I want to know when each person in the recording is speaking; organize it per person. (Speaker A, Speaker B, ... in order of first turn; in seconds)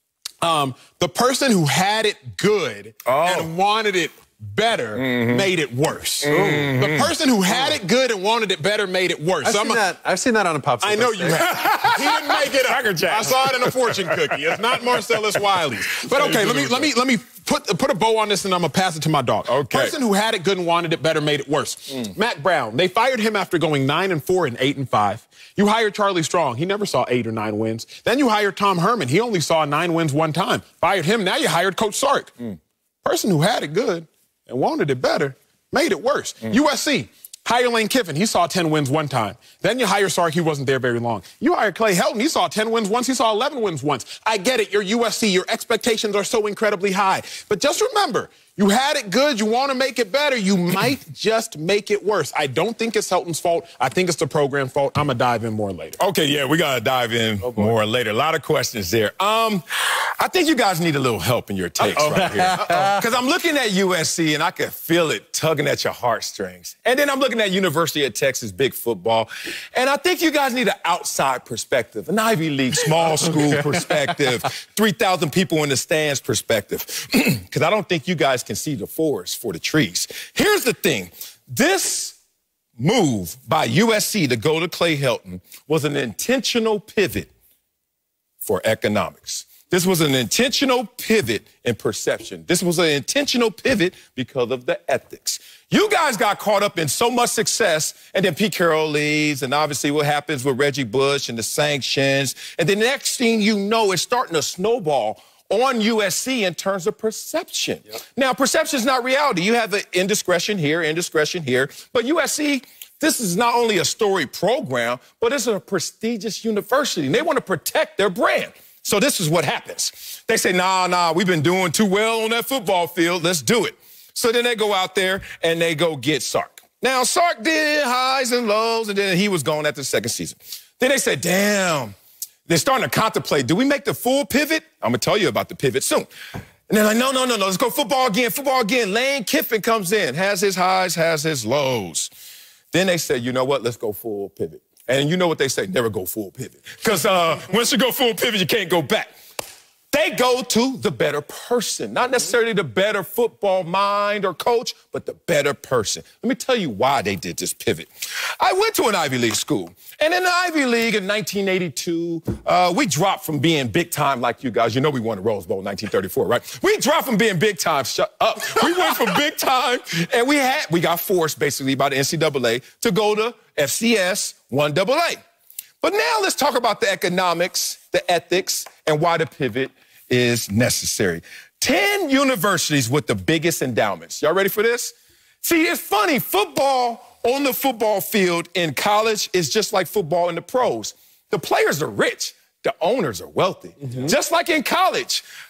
Speaker A: 0.4-9.8, 10.8-56.0, 61.9-62.8, 193.8-194.1
Speaker B: 3.0-3.5, 5.0-5.5, 6.2-7.1, 11.6-15.4, 16.0-16.9, 19.4-19.9, 56.0-82.2, 82.8-87.3, 88.4-131.9, 132.5-136.1, 136.7-142.1, 142.7-149.1, 149.9-175.2, 175.8-195.2
Speaker C: 6.3-6.8, 9.4-11.5, 61.9-63.0